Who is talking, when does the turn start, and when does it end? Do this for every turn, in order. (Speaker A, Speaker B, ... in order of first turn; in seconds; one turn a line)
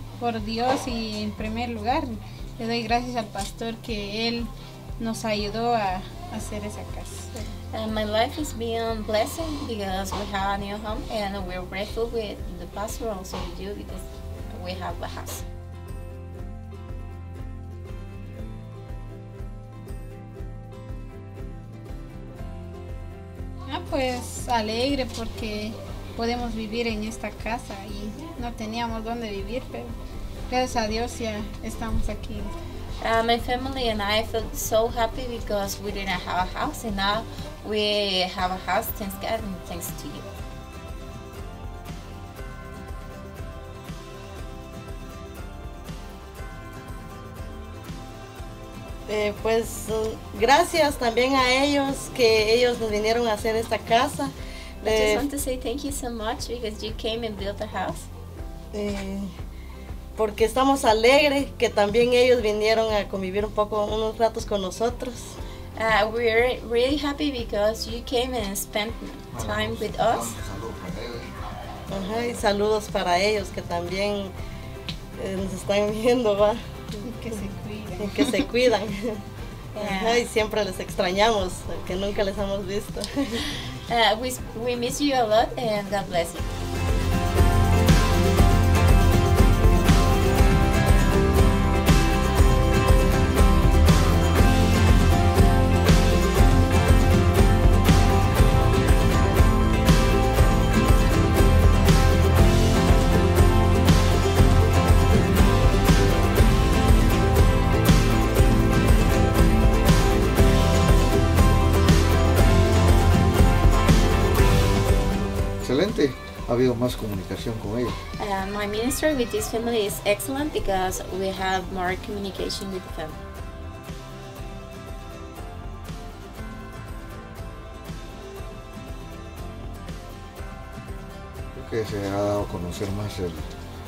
Speaker A: 0.2-7.5
Speaker B: 7.7-15.4
Speaker A: 23.7-29.9
Speaker A: 30.5-32.5
Speaker B: 33.0-40.3
Speaker C: 49.1-55.3
Speaker B: 54.8-58.1
Speaker C: 58.7-59.3
Speaker C: 60.1-65.3
Speaker B: 65.8-70.3
Speaker D: 69.3-71.3
Speaker C: 71.9-74.3
Speaker C: 75.2-77.4
Speaker A: 77.0-78.3
Speaker C: 78.0-79.2
Speaker B: 79.7-80.2
Speaker C: 79.8-83.4
Speaker B: 83.5-86.5
Speaker D: 115.6-118.0
Speaker B: 118.2-123.2
Speaker D: 131.5-133.5